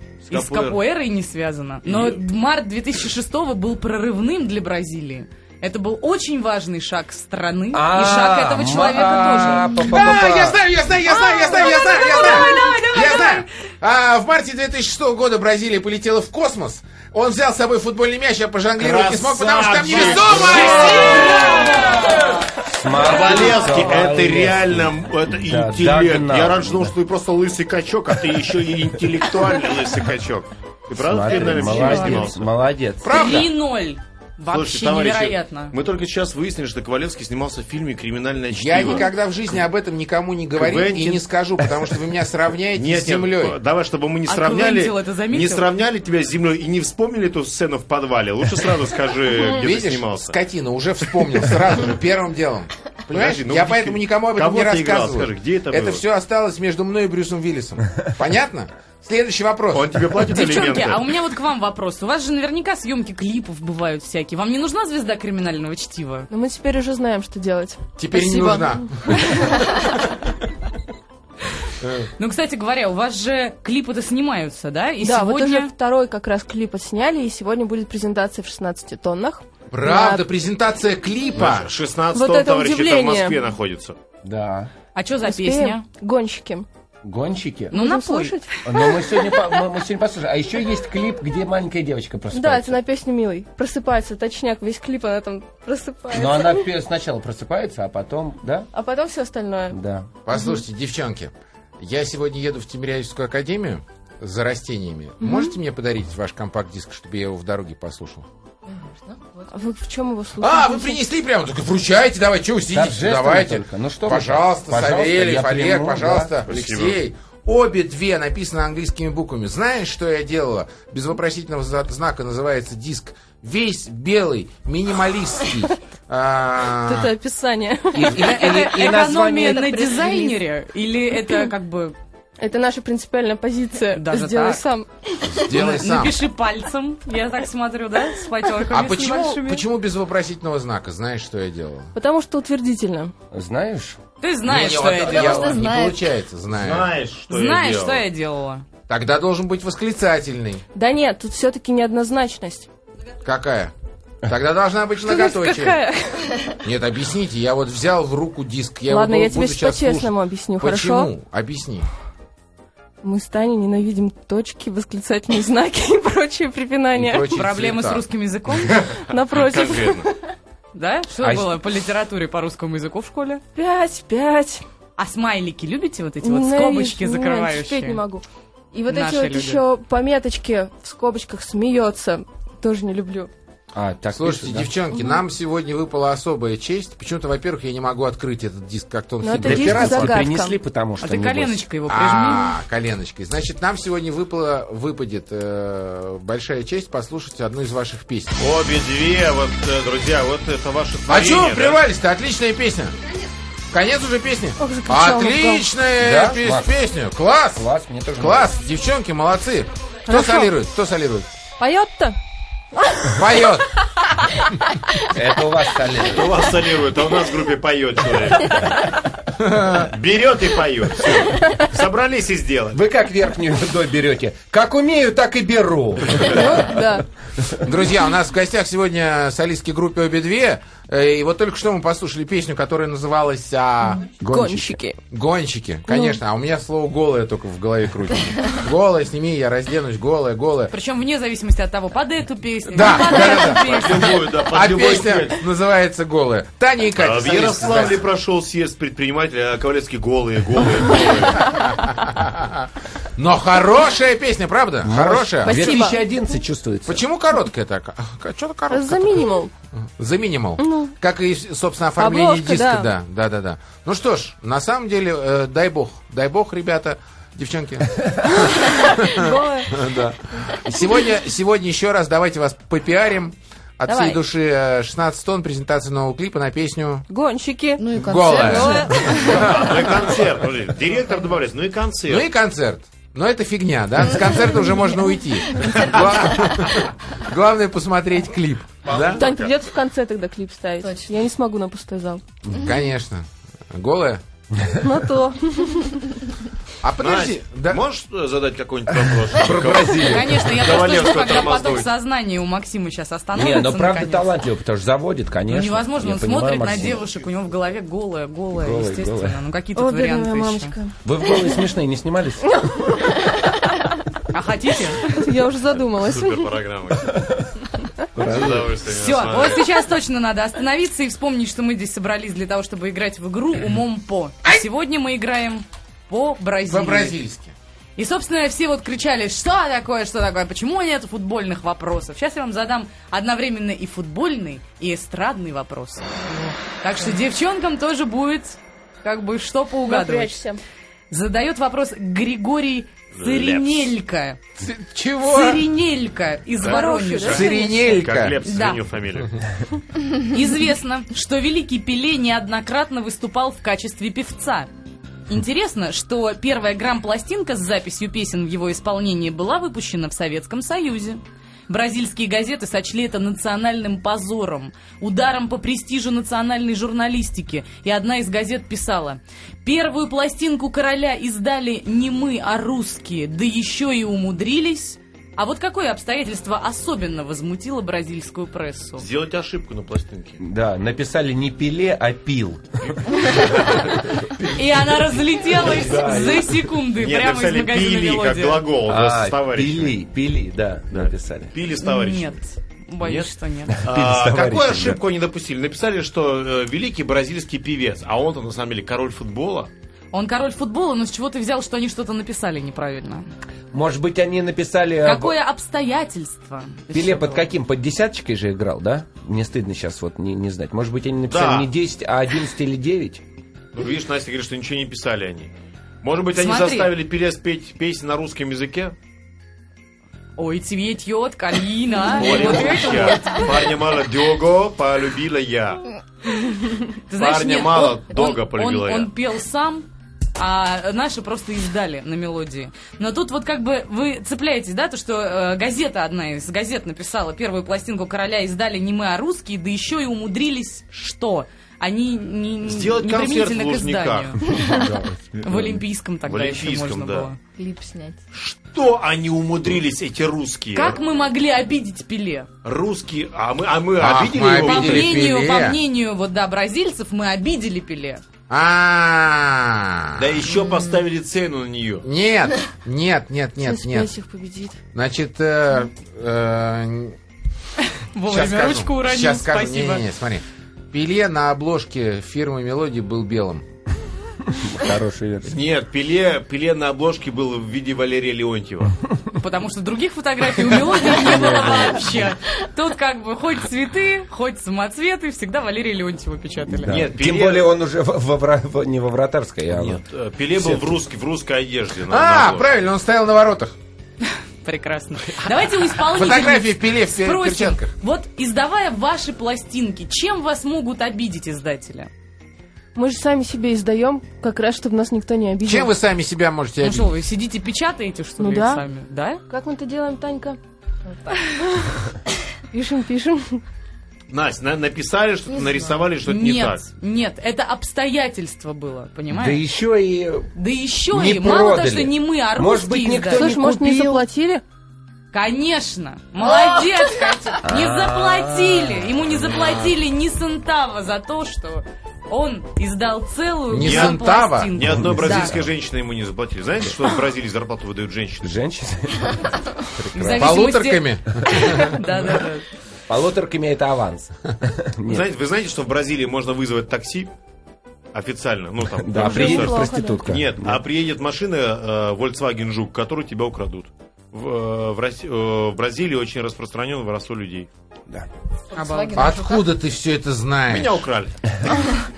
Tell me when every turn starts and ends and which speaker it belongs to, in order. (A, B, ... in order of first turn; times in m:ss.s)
0:00.2-0:00.8 A
0:00.3-0:10.1 B
0:01.9-0:02.2 A
0:07.7-0:10.6 C
0:09.8-0:21.8 D
0:11.1-0:13.5 B
0:18.8-0:22.1 A
0:20.4-0:22.4 B
0:22.7-0:26.9 C
0:23.0-0:32.5 A
0:31.0-0:33.4 C
0:31.6-0:31.9 E
0:33.0-0:33.5 D
0:33.0-0:35.7 B
0:34.5-0:39.1 A
0:38.5-0:43.6 D
0:40.6-0:41.3 A
0:42.7-0:50.4 A
0:44.3-0:45.7 B
0:49.6-1:00.0 D
0:53.1-0:56.0 A
0:59.7-1:01.0 A
1:00.3-1:06.3 B
1:06.3-1:09.8 E
1:08.0-1:09.7 D
1:11.8-1:12.1 D
1:12.2-1:15.7 B
1:15.0-1:20.2 E
1:19.7-1:21.7 D
1:21.4-1:24.0 A
1:22.1-1:23.4 E
1:24.2-1:24.7 C
1:25.0-1:25.8 B
1:25.3-1:26.7 E
1:27.0-1:27.7 C
1:27.7-1:29.6 E
1:27.7-1:28.4 B
1:28.6-1:32.8 C
1:32.3-1:36.7 E
1:36.1-1:38.7 C
1:38.7-1:39.8 E
1:39.7-1:40.1 C
1:40.3-1:48.3 D
1:40.3-1:40.6 E
1:45.2-1:45.6 E
1:48.7-1:49.5 F
1:49.5-1:51.0 E
1:50.4-2:07.1 D
1:52.7-1:56.3 C
1:56.5-1:57.0 A
2:06.8-2:08.3 E
2:07.9-2:10.1 C
2:08.1-2:12.0 B
2:10.0-2:10.4 F
2:11.2-2:11.5 E
2:12.4-2:15.4 E
2:13.9-2:14.6 B
2:15.3-2:16.2 D
2:15.5-2:19.6 B
2:18.7-2:21.9 D
2:22.0-2:23.1 E
2:23.3-2:24.0 C
2:24.2-2:25.6 B
2:24.4-2:26.9 D
2:25.1-2:26.1 F
2:26.5-2:28.0 A
2:27.3-2:28.6 B
2:28.9-2:30.6 D
2:30.7-2:32.7 E
2:33.2-2:33.7 D
2:34.2-2:35.8 D
2:35.0-2:36.6 E
2:36.6-2:41.9 D
2:38.9-2:41.1 E
2:43.0-2:47.4 E
2:46.9-2:48.0 D
2:47.3-2:48.8 B
2:48.7-2:50.1 A
2:49.0-2:50.1 E
2:50.7-2:53.4 B
2:51.2-2:51.6 C
2:53.6-2:54.6 E
2:55.0-2:58.0 B
2:56.2-3:03.3 E
2:58.9-2:59.6 B
3:03.7-3:04.7 C
3:04.1-3:10.2 D
3:09.2-3:10.6 E
3:09.3-3:11.7 C
3:11.0-3:12.6 B
3:11.9-3:18.4 D
3:18.4-3:21.8 A
3:21.1-3:23.0 D
3:23.7-3:27.6 D
3:24.6-3:25.7 E
3:26.0-3:26.7 C
3:27.6-3:28.5 C
3:28.2-3:31.3 D
3:30.1-3:30.5 E
3:31.6-3:32.2 E
3:32.8-3:33.2 E
3:33.1-3:33.8 D
3:35.0-3:36.4 C
3:36.1-3:38.9 A
3:39.4-3:39.9 D
3:39.7-3:42.8 A
3:42.7-3:46.7 C
3:46.2-3:47.0 E
3:47.6-3:54.1 D
3:54.1-3:55.0 E
3:54.2-3:54.8 C
3:55.1-4:00.7 D
3:55.9-3:56.2 E
4:00.7-4:04.3 B
4:02.7-4:08.0 D
4:03.5-4:05.4 A
4:07.0-4:11.7 A
4:11.4-4:15.9 D
4:14.8-4:17.0 C
4:15.4-4:16.2 E
4:16.9-4:19.3 D
4:18.7-4:19.5 E
4:20.0-4:37.1 D
4:20.6-4:20.9 E
4:22.0-4:22.9 E
4:28.3-4:29.7 E
4:33.9-4:34.2 E
4:37.1-4:39.6 E
4:37.8-4:39.3 F
4:37.9-4:40.1 D
4:39.1-4:42.3 A
4:42.1-4:49.3 D
4:48.8-4:49.5 A
4:49.2-4:52.2 E
4:50.8-4:51.2 F
4:52.5-4:54.2 D
4:54.8-4:56.3 E
4:56.8-4:57.8 D
4:57.0-5:01.9 A
4:59.3-5:00.6 C
5:00.0-5:04.4 B
5:03.3-5:07.0 C
5:05.5-5:10.8 B
5:08.5-5:09.4 C
5:09.8-5:11.6 E
5:11.0-5:13.0 C
5:13.3-5:13.6 E
5:14.3-5:15.3 B
5:15.1-5:16.5 E
5:15.6-5:17.5 A
5:18.1-5:18.8 C
5:18.2-5:19.7 A
5:18.8-5:27.2 B
5:26.7-5:27.5 D
5:28.0-5:36.1 B
5:36.8-5:40.4 B
5:39.8-5:40.6 E
5:41.1-5:44.4 B
5:43.1-5:43.9 A
5:44.6-5:45.7 D
5:45.2-5:47.6 B
5:46.6-5:48.1 E
5:46.6-5:49.4 A
5:47.3-5:48.4 D
5:48.4-5:48.8 B
5:50.2-5:54.7 B
5:55.3-6:19.1 B
6:19.0-6:20.4 A
6:20.4-6:22.9 C
6:22.9-6:24.3 A
6:24.5-6:28.7 B
6:25.6-6:26.5 C
6:25.9-6:26.3 A
6:26.9-6:30.0 A
6:28.8-6:31.6 C
6:30.9-6:32.4 A
6:31.8-6:33.8 B
6:33.0-6:33.3 A
6:33.7-6:35.0 C
6:33.8-6:39.7 A
6:40.1-6:43.2 B
6:43.7-6:45.4 C
6:45.0-6:47.5 B
6:46.9-6:53.2 C
6:51.3-6:51.7 A
6:53.7-6:55.5 A
6:56.0-6:59.0 A
6:56.4-6:56.9 B
7:00.4-7:03.6 B
7:02.1-7:05.8 A
7:06.9-7:24.6 B
7:07.1-7:09.1 A
7:22.6-7:24.4 A
7:24.6-7:25.8 C
7:25.4-7:27.4 B
7:26.3-7:27.3 A
7:27.6-7:28.2 F
7:28.3-7:31.0 A
7:30.7-7:32.5 B
7:32.6-7:35.2 A
7:34.0-7:35.8 D
7:34.6-7:38.2 B
7:38.5-7:40.5 D
7:40.2-7:42.1 A
7:40.5-7:41.0 F
7:42.0-7:44.1 D
7:43.6-7:44.8 E
7:44.9-7:47.2 D
7:47.9-7:50.0 B
7:48.3-7:53.6 D
7:54.5-7:55.6 C
7:55.4-7:59.0 A
7:59.3-8:06.9 B
8:01.2-8:02.1 C
8:06.6-8:10.0 C
8:06.8-8:07.7 A
8:09.7-8:12.7 A
8:10.6-8:10.9 C
8:12.1-8:13.8 D
8:14.6-8:22.1 B
8:16.1-8:17.9 D
8:23.0-8:26.0 E
8:25.6-8:27.1 D
8:26.8-8:29.4 B
8:28.4-8:28.8 E
8:29.5-8:30.6 E
8:31.3-8:32.1 E
8:32.7-8:33.6 E
8:34.3-8:36.8 A
8:35.5-8:36.0 F
8:36.2-8:39.6 B
8:39.3-8:40.5 C
8:40.6-8:43.6 B
8:41.1-8:44.3 C
8:43.3-8:44.6 E
8:45.3-8:55.5 B
8:47.6-8:49.9 C
8:53.7-8:54.9 D
8:53.8-8:58.6 A
8:54.9-8:55.7 C
8:58.4-9:00.7 C
9:00.1-9:02.6 B
9:00.4-9:02.0 D
9:03.1-9:05.3 C
9:05.1-9:07.3 A
9:08.1-9:17.7 A
9:09.0-9:10.8 C
9:09.1-9:10.3 E
9:18.7-9:19.7 F
9:18.7-9:19.3 B
9:19.1-9:21.0 D
9:20.7-9:21.9 A